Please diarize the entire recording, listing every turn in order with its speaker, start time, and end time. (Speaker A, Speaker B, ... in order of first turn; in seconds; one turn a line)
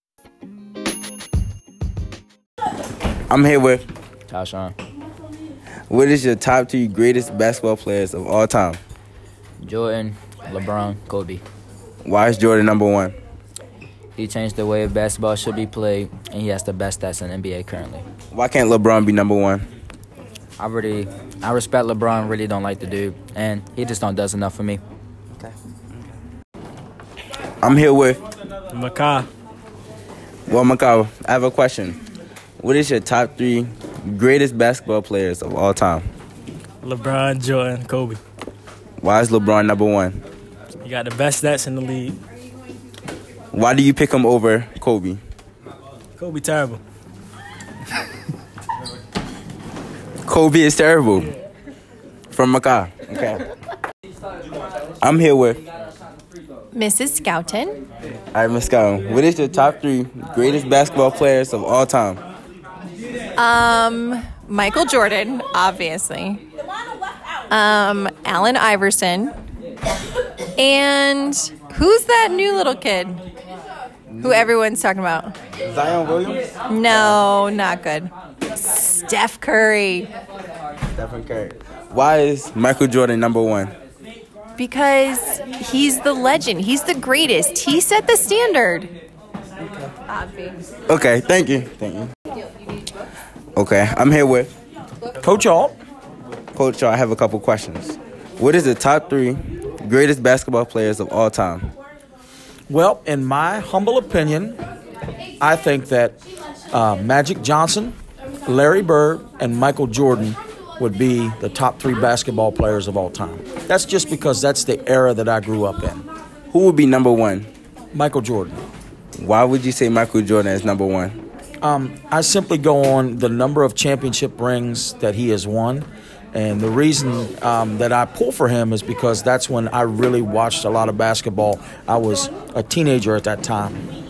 Speaker A: 3.3-3.8
Speaker B: 4.3-4.8
Speaker A: 5.9-8.8
Speaker B: 9.6-11.4
Speaker A: 12.0-13.2
Speaker B: 14.2-18.1
Speaker A: 18.3-19.7
Speaker B: 20.6-24.8
Speaker A: 27.6-28.2
Speaker C: 28.7-29.3
Speaker A: 30.5-32.0
Speaker A: 32.6-36.1
Speaker C: 36.8-38.2
Speaker A: 39.0-40.2
Speaker C: 40.8-42.2
Speaker A: 43.5-45.2
Speaker C: 46.2-46.8
Speaker A: 50.3-51.3
Speaker A: 52.3-53.4
Speaker A: 55.0-55.6
Speaker D: 56.7-57.8
Speaker A: 58.3-62.2
Speaker D: 63.4-66.4
Speaker D: 67.5-69.3
Speaker D: 70.6-73.2
Speaker A: 74.2-74.5
Speaker D: 74.2-75.3
Speaker A: 75.7-77.2
Speaker D: 76.7-80.1
Speaker A: 81.0-83.7
Speaker D: 84.6-88.9
Speaker D: 90.1-90.7
Speaker A: 90.9-92.1
Speaker A: 93.6-94.5
Speaker E: 95.2-95.8
Speaker A: 96.5-101.7
Speaker E: 102.7-104.6
Speaker E: 105.4-106.2
Speaker E: 106.7-116.1
Speaker A: 116.5-117.5
Speaker E: 117.9-118.6
Speaker A: 119.2-121.2
Speaker E: 121.6-133.8